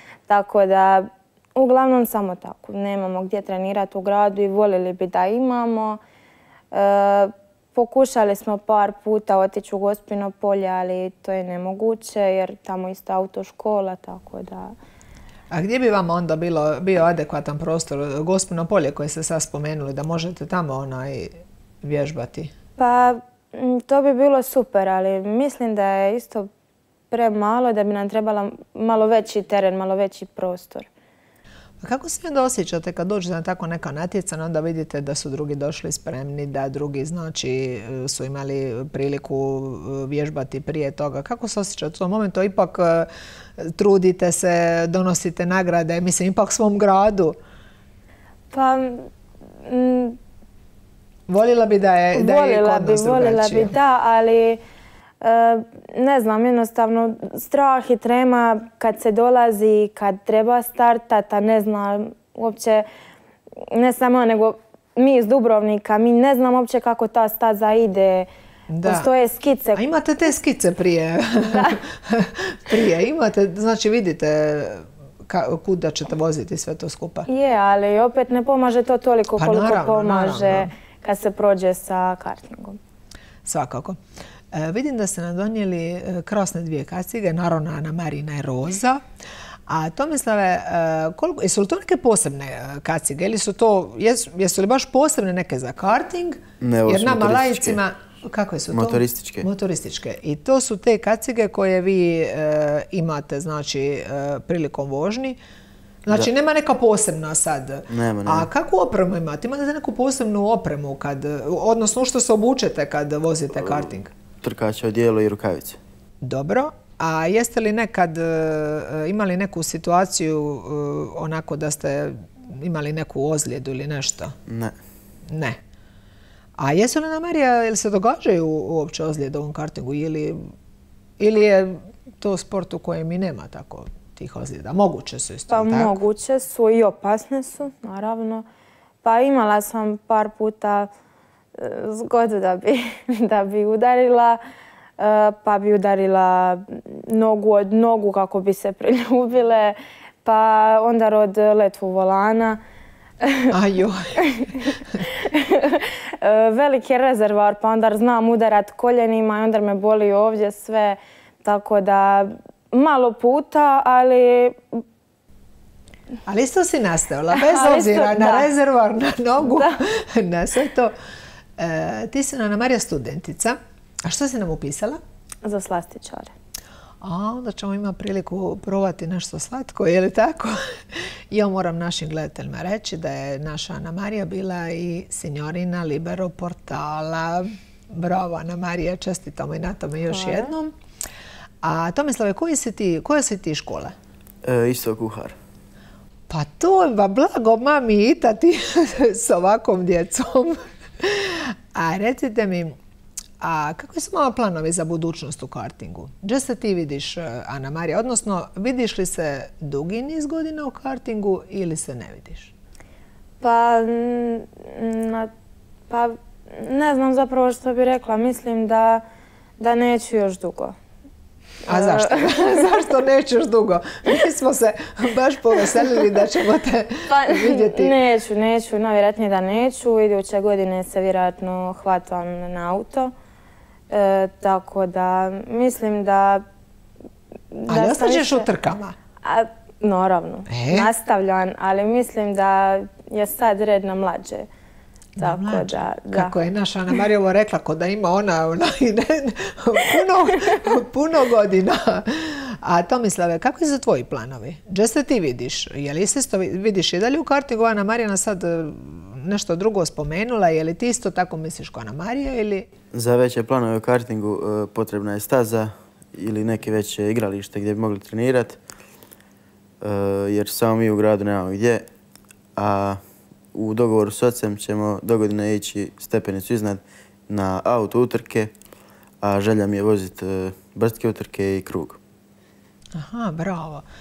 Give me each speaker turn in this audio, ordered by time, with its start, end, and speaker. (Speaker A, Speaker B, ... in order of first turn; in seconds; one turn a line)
Speaker A: 0.3-6.0
Speaker A: 6.7-14.7
Speaker B: 15.5-22.5
Speaker A: 22.8-26.5
Speaker A: 27.1-30.9
Speaker B: 31.8-47.4
Speaker A: 48.5-49.1
Speaker A: 49.6-50.2
Speaker B: 51.3-53.8
Speaker A: 52.1-54.6
Speaker A: 55.2-62.9
Speaker A: 63.6-68.3
Speaker B: 68.7-69.1
Speaker A: 68.8-69.8
Speaker B: 69.7-77.3
Speaker A: 77.3-82.8
Speaker B: 79.4-80.7
Speaker B: 83.4-84.0
Speaker B: 84.5-89.0
Speaker B: 89.7-105.4
Speaker C: 96.6-97.8
Speaker C: 98.7-99.5
Speaker B: 106.0-114.1
Speaker C: 107.9-108.5
Speaker C: 114.4-115.8
Speaker B: 116.2-124.3
Speaker C: 124.5-124.7
Speaker B: 125.3-125.6
Speaker B: 126.6-130.5
Speaker B: 131.2-135.9
Speaker A: 135.5-138.4
Speaker A: 139.0-140.9
Speaker A: 141.5-144.4
Speaker A: 145.0-152.6
Speaker A: 153.2-153.5
Speaker B: 153.5-154.2
Speaker A: 154.2-164.8
Speaker B: 166.2-170.9
Speaker A: 167.3-168.5
Speaker A: 169.4-169.8
Speaker B: 171.6-175.0
Speaker A: 175.4-176.3
Speaker B: 177.0-190.7
Speaker A: 190.1-190.5
Speaker B: 191.6-193.9
Speaker C: 194.4-195.4
Speaker B: 196.3-202.8
Speaker B: 203.4-212.5
Speaker A: 213.4-215.3
Speaker A: 215.9-219.0
Speaker A: 219.6-220.7
Speaker B: 221.7-228.0
Speaker A: 221.7-222.8
Speaker A: 227.1-233.1
Speaker A: 233.9-236.4
Speaker A: 237.5-238.5
Speaker B: 237.7-238.9
Speaker A: 239.2-244.5
Speaker B: 240.5-240.9
Speaker B: 245.2-262.7
Speaker A: 245.2-246.3
Speaker C: 262.9-268.6
Speaker C: 269.8-271.9
Speaker C: 272.6-273.0
Speaker C: 273.5-278.5
Speaker C: 279.2-282.0
Speaker B: 282.9-283.8